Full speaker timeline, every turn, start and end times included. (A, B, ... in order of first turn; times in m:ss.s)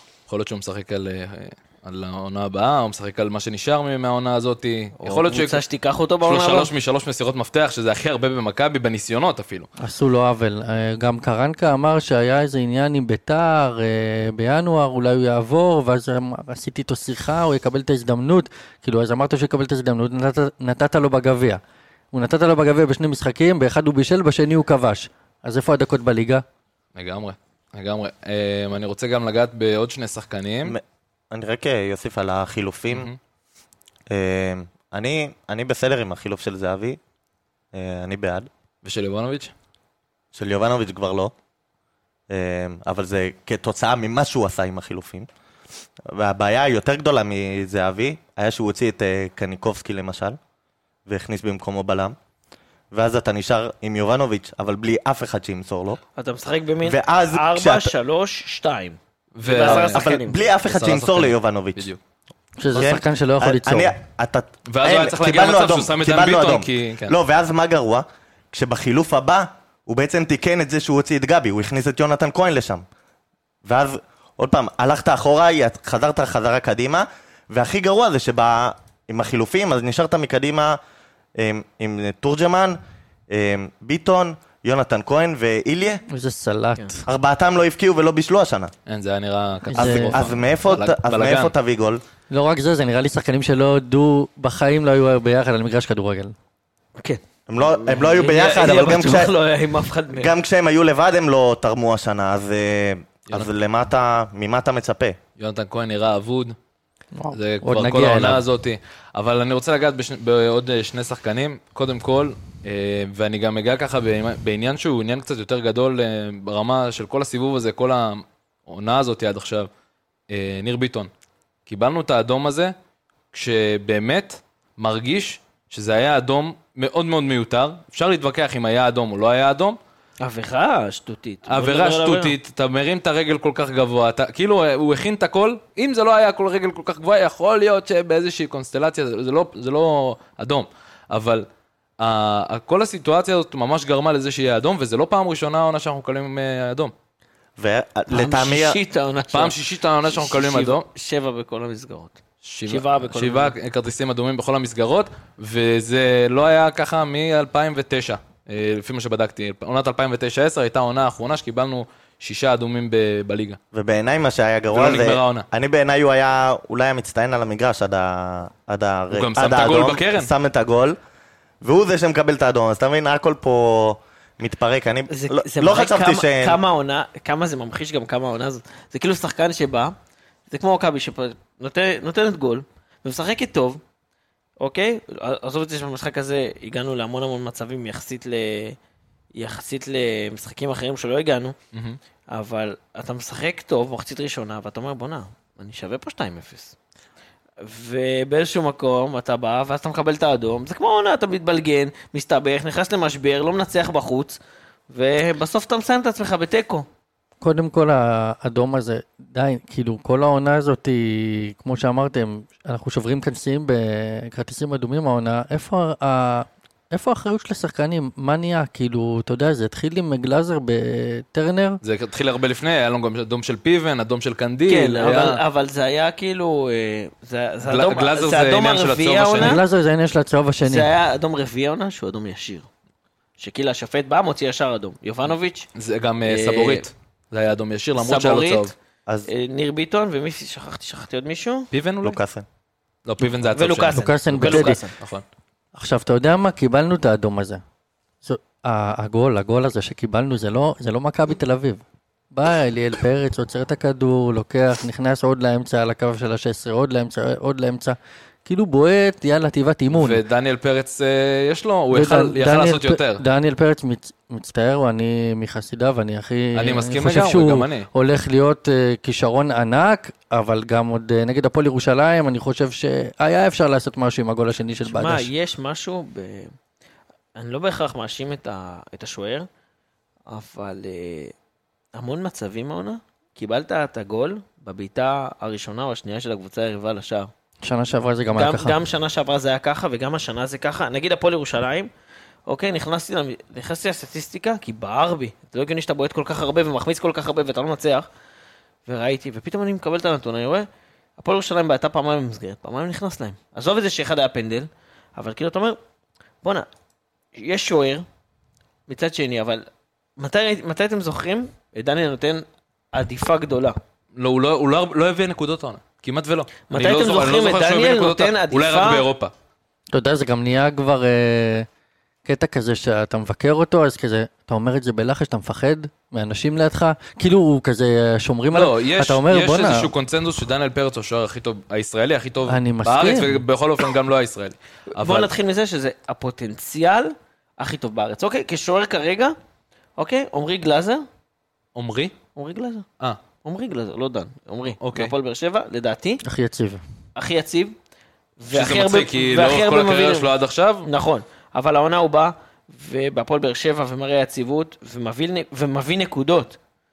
0:00.3-0:05.6 A
0:05.0-0:06.7 B
0:06.2-0:09.7 A
0:09.8-0:21.6 C
0:22.1-0:26.4 C
0:27.0-0:30.8 A
0:30.6-0:33.1 D
0:32.9-0:33.2 A
0:34.1-0:37.0 D
0:37.7-0:38.5 D
0:38.8-0:39.5 A
0:40.3-0:41.3 D
0:42.3-0:45.3 D
0:46.1-0:50.4 D
0:51.1-0:52.2 D
0:52.9-0:56.0 D
0:56.2-1:00.5 B
0:56.8-0:57.9 D
0:59.4-1:00.1 A
0:59.6-1:01.9 D
1:00.6-1:02.0 A
1:02.6-1:03.9 C
1:02.8-1:12.8 D
1:04.7-1:07.2 A
1:13.6-1:20.8 D
1:21.4-1:22.8 D
1:23.3-1:26.0 D
1:26.1-1:27.0 C
1:27.1-1:28.7 D
1:28.9-1:31.5 A
1:29.7-1:30.3 C
1:29.7-1:32.0 D
1:32.3-1:36.3 C
1:37.0-1:40.3 B
1:37.5-1:39.3 D
1:40.1-1:45.2 D
1:45.4-1:46.6 A
1:47.2-1:48.4 C
1:47.3-1:59.7 A
2:00.3-2:01.1 A
2:01.7-2:02.7 A
2:03.3-2:09.8 A
2:10.2-2:12.4 B
2:11.5-2:21.5 A
2:22.0-2:26.9 A
2:27.6-2:28.8 D
2:28.1-2:33.6 B
2:29.3-2:30.9 A
2:32.4-2:43.6 A
2:43.7-2:51.0 D
2:44.7-2:45.5 A
2:49.1-2:50.3 A
2:51.6-2:56.6 D
2:55.1-2:59.9 B
3:00.5-3:03.8 B
3:04.6-3:08.8 B
3:09.3-3:11.6 B
3:11.7-3:12.0 A
3:12.3-3:16.8 B
3:17.6-3:24.4 B
3:24.9-3:26.9 B
3:27.4-3:41.8 C
3:41.8-3:45.4 A
3:44.7-3:49.6 B
3:47.6-3:49.6 A
3:49.4-3:50.9 C
3:50.6-3:52.7 B
3:53.4-3:55.7 B
3:55.8-3:58.7 A
3:56.2-3:56.9 B
3:58.0-3:58.7 B
3:59.3-4:01.7 B
4:01.7-4:02.2 A
4:02.0-4:02.5 D
4:03.0-4:05.2 A
4:03.3-4:05.0 B
4:03.9-4:04.8 C
4:05.8-4:07.6 C
4:08.2-4:20.2 C
4:19.9-4:23.2 A
4:21.9-4:35.3 C
4:26.6-4:27.9 A
4:34.8-4:36.5 B
4:37.4-4:39.5 B
4:40.3-4:41.3 B
4:41.9-4:47.3 B
4:47.6-4:48.8 C
4:48.3-4:51.9 B
4:52.5-4:58.1 B
4:58.9-5:00.7 B
5:01.2-5:05.8 B
5:06.4-5:06.7 B
5:07.4-5:08.1 B
5:08.9-5:09.7 B
5:10.2-5:13.8 B
5:14.2-5:19.3 A
5:16.7-5:19.1 B
5:19.9-5:21.7 C
5:22.2-5:29.9 C
5:28.5-5:35.3 A
5:32.5-5:33.4 C
5:35.0-5:39.4 B
5:40.0-5:41.1 B
5:41.8-5:42.2 A
5:42.4-5:42.9 B
5:43.4-5:46.2 B
5:44.8-5:45.1 A
5:46.2-5:46.8 C
5:47.2-5:47.8 B
5:48.4-5:50.3 B
5:48.5-5:50.9 A
5:50.8-5:56.6 B